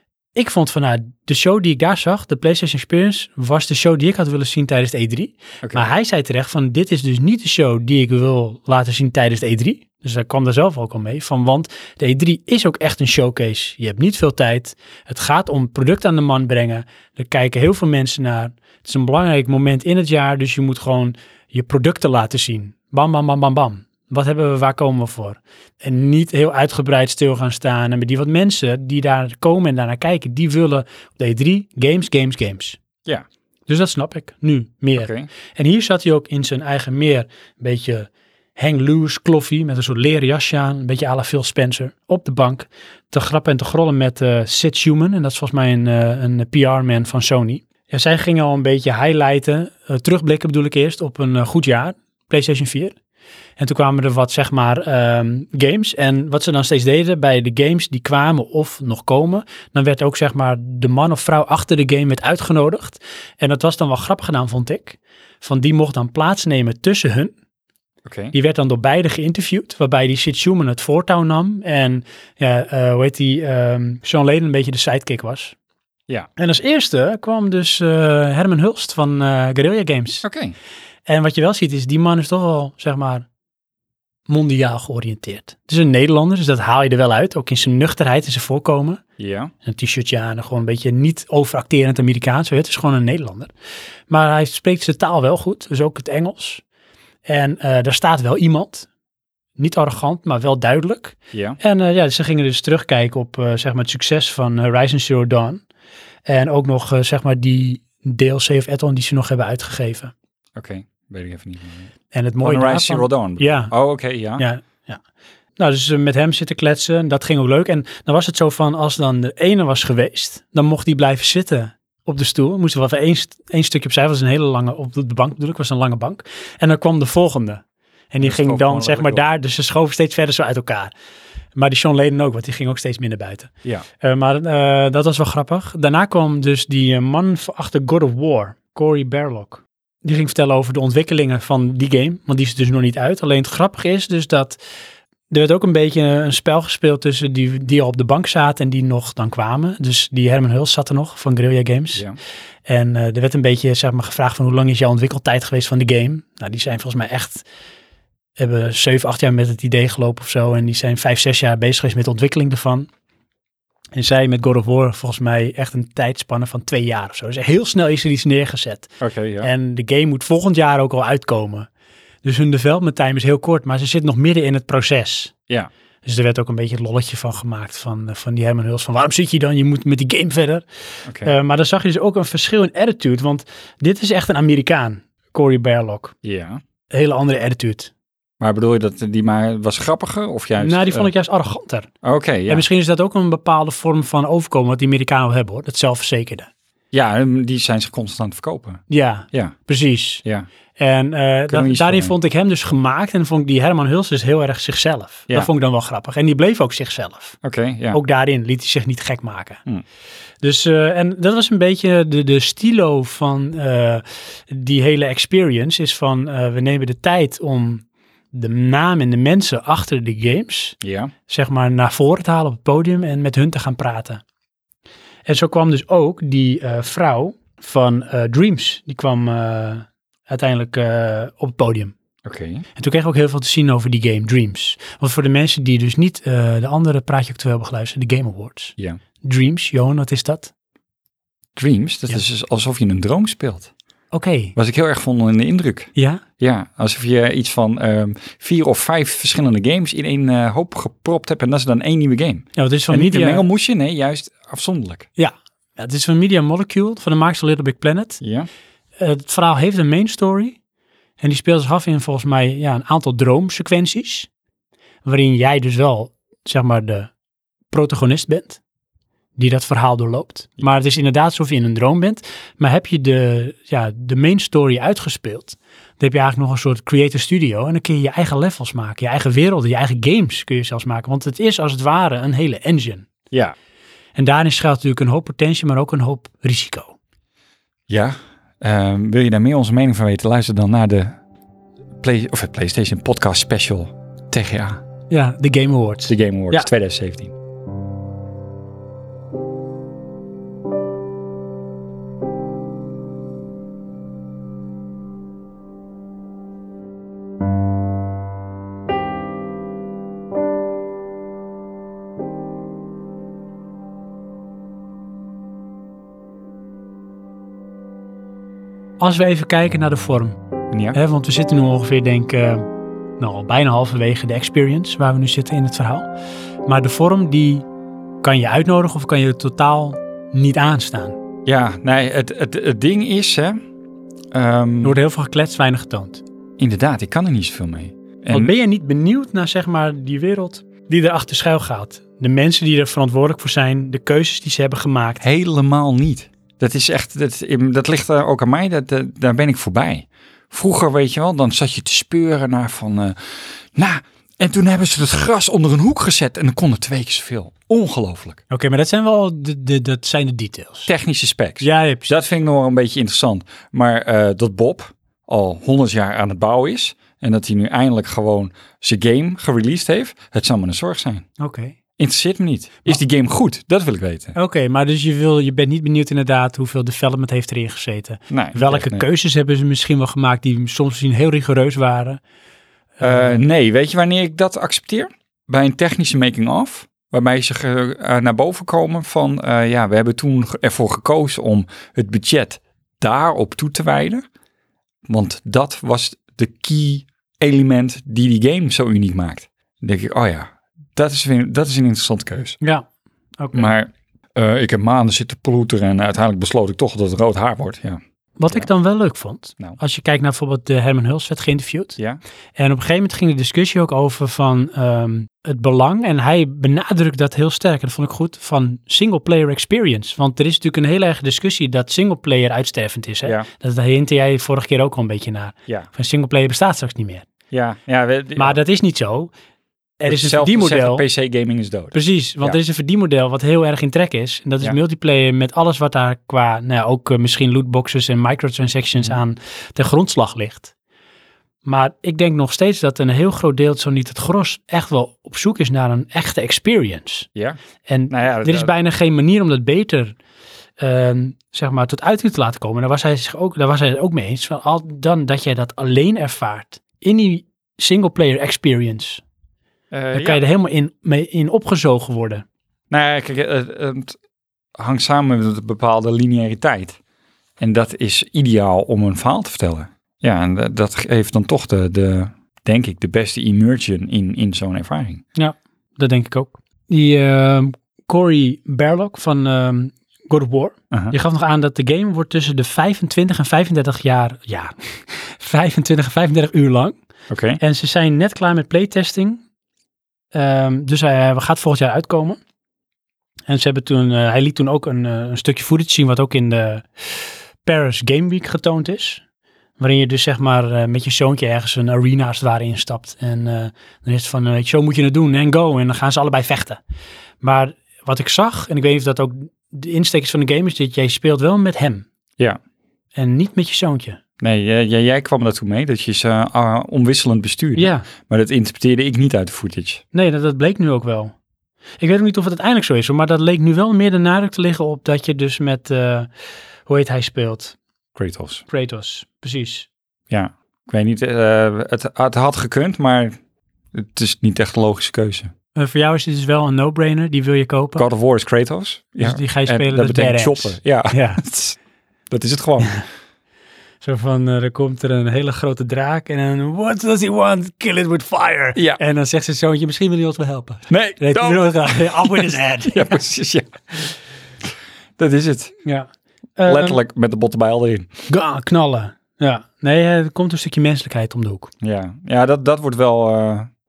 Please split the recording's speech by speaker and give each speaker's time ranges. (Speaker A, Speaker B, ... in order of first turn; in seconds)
Speaker A: 0.3-32.8, 33.7-53.0, 53.6-67.3, 68.3-75.5, 76.4-80.2, 81.1-83.3, 84.3-89.0, 89.6-93.5, 94.1-96.6, 97.2-98.9, 99.6-105.6, 106.3-110.1, 112.1-113.7, 114.4-115.0, 115.6-130.9, 131.6-144.6, 145.3-152.0, 152.7-157.4, 158.4-162.9, 163.9-171.7, 172.2-175.3, 176.0-180.7, 181.2-186.2, 186.9-187.9, 190.6-191.9, 192.5-196.5, 198.9-200.2, 200.8-207.4, 207.9-209.6, 210.4-224.2, 225.2-231.9, 232.8-240.5, 244.1-244.6, 246.0-246.2, 252.6-253.4, 255.2-258.2, 259.0-260.6, 261.2-264.3, 265.0-267.1, 267.7-268.6, 269.4-283.1, 284.1-287.0, 295.1-296.7, 319.0-320.4, 320.9-326.1, 326.6-327.7, 328.2-331.2, 334.8-336.2, 338.3-345.2, 358.5-360.9, 361.6-362.1, 371.4-371.8, 374.4-382.2, 383.0-383.4, 403.4-403.7, 408.4-412.0, 412.6-427.2, 428.4-429.3, 430.0-431.1, 431.9-440.7, 441.6-447.3, 447.9-450.2, 450.8-459.2, 460.1-462.4, 475.4-487.0, 487.6-489.4, 490.3-492.4, 493.5-499.2, 499.8-506.8, 507.4-512.1, 513.1-514.2, 517.8-518.1, 520.1-521.3, 522.0-526.3, 526.9-527.8, 528.7-529.9, 535.8-538.0, 539.2-541.4, 544.0-553.2, 555.9-557.0, 558.3-561.7
Speaker B: 5.6-5.9, 35.0-35.3, 68.0-68.3, 80.2-80.6, 89.2-89.5, 101.3-101.6, 110.6-111.9, 112.4-114.4, 128.2-129.2, 169.0-169.5, 181.1-181.3, 186.2-186.6, 188.4-191.1, 192.0-192.7, 196.9-199.6, 201.5-202.1, 207.4-208.0, 220.8-221.1, 232.2-232.7, 241.6-243.7, 244.6-255.1, 258.2-258.5, 287.9-291.2, 292.0-294.8, 296.1-297.3, 320.7-321.0, 331.5-333.6, 334.3-335.0, 336.6-338.5, 345.2-358.4, 360.9-371.3, 372.0-374.4, 378.3-379.1, 383.0-394.2, 395.1-402.6, 403.5-408.7, 427.5-428.6, 430.1-432.6, 448.1-448.7, 459.9-460.4, 462.9-464.2, 464.8-467.0, 467.6-475.2, 487.3-487.6, 514.4-520.0, 528.2-528.6, 530.3-533.4, 533.9-535.5, 538.0-541.8, 542.3-543.0, 548.8-549.0, 550.9-554.1, 555.2-555.8, 556.7-558.1, 561.8-563.7